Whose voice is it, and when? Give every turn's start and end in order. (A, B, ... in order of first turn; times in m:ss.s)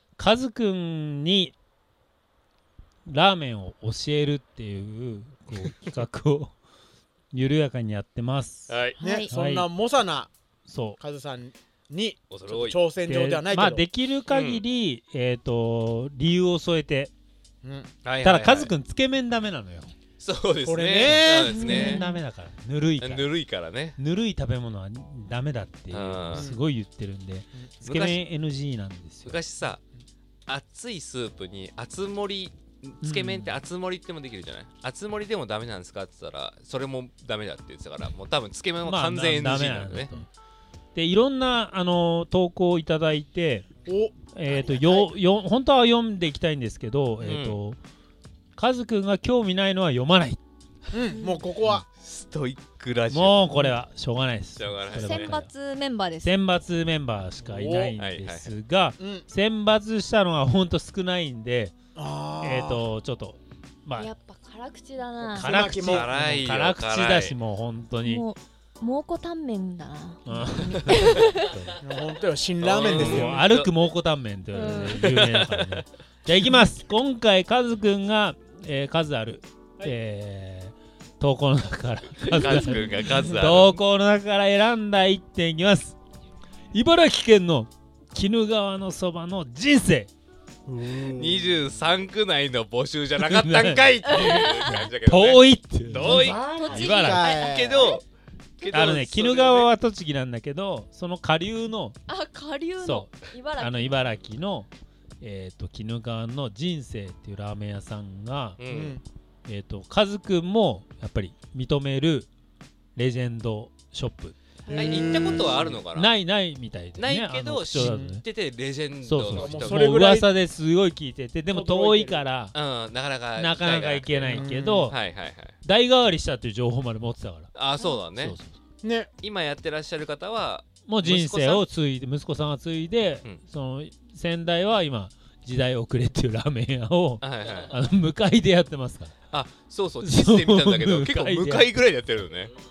0:00.2-0:01.5 A
0:03.1-0:06.5 A
0:07.3-0:08.8 A
0:08.7-0:09.0 B
0:09.0-0:09.3 C
0:09.0-0:10.3 D
0:09.3-0:09.7 A
0:10.7-0:11.0 A
0:11.0-0:13.8 D
0:12.3-0:12.8 B
0:13.0-0:17.1 A
0:14.3-0:14.6 B
0:17.6-0:17.9 D
0:18.0-0:18.7 B
0:18.2-0:19.9 A
0:20.2-0:22.0 B
0:20.6-0:21.6 D
0:21.4-0:22.2 C
0:21.5-0:23.3 A
0:23.0-0:24.0 B
0:24.0-0:29.4 A
0:25.9-0:26.5 B
0:26.3-0:26.6 D
0:27.8-0:28.2 B
0:29.2-0:29.8 B
0:30.5-0:40.1 B
0:33.0-0:33.6 A
0:38.8-0:40.3 A
0:40.9-0:43.6 A
0:43.8-0:45.1 D
0:44.3-0:47.8 A
0:47.2-0:47.6 B
0:48.6-0:50.4 A
0:50.9-0:51.8 D
0:51.1-0:51.4 C
0:52.0-0:53.5 B
0:53.1-0:55.5 A
0:54.6-0:55.4 B
0:54.9-0:56.3 C
0:56.2-1:01.7 A
0:57.4-0:58.0 D
0:58.0-0:58.5 B
0:59.0-0:59.2 D
1:01.9-1:02.8 D
1:02.4-1:04.1 A
1:04.0-1:05.6 C
1:05.3-1:06.1 D
1:05.3-1:08.2 A
1:05.7-1:07.4 B
1:08.0-1:11.5 C
1:10.2-1:11.8 A
1:11.8-1:13.4 D
1:12.6-1:13.7 B
1:12.9-1:26.0 A
1:14.5-1:15.1 C
1:14.9-1:15.7 B
1:22.2-1:23.8 B
1:22.5-1:22.9 C
1:26.7-1:30.1 A
1:30.6-1:31.6 D
1:31.0-1:38.0 B
1:33.2-1:34.4 A
1:34.1-1:34.9 C
1:35.0-1:37.3 A
1:36.0-1:38.0 D
1:36.5-1:37.4 C
1:38.6-1:39.7 B
1:38.7-1:42.0 A
1:42.1-1:44.1 C
1:42.8-1:44.7 A
1:45.2-1:48.6 A
1:48.6-1:49.0 B
1:48.7-1:49.0 D
1:49.4-1:52.3 A
1:53.0-1:54.4 A
1:54.7-1:55.8 D
1:54.7-1:55.3 C
1:54.7-1:56.1 B
1:55.9-1:58.2 A
1:57.0-2:00.0 B
1:57.7-1:58.2 D
1:59.0-2:02.5 A
1:59.2-2:00.3 D
2:01.5-2:02.2 D
2:02.5-2:05.6 B
2:03.3-2:05.0 A
2:04.3-2:04.9 D
2:05.6-2:07.5 A
2:07.5-2:08.4 B
2:08.2-2:08.6 A
2:08.8-2:09.1 D
2:09.2-2:11.7 B
2:10.9-2:19.1 A
2:17.2-2:17.8 B
2:19.3-2:22.5 B
2:20.0-2:21.7 A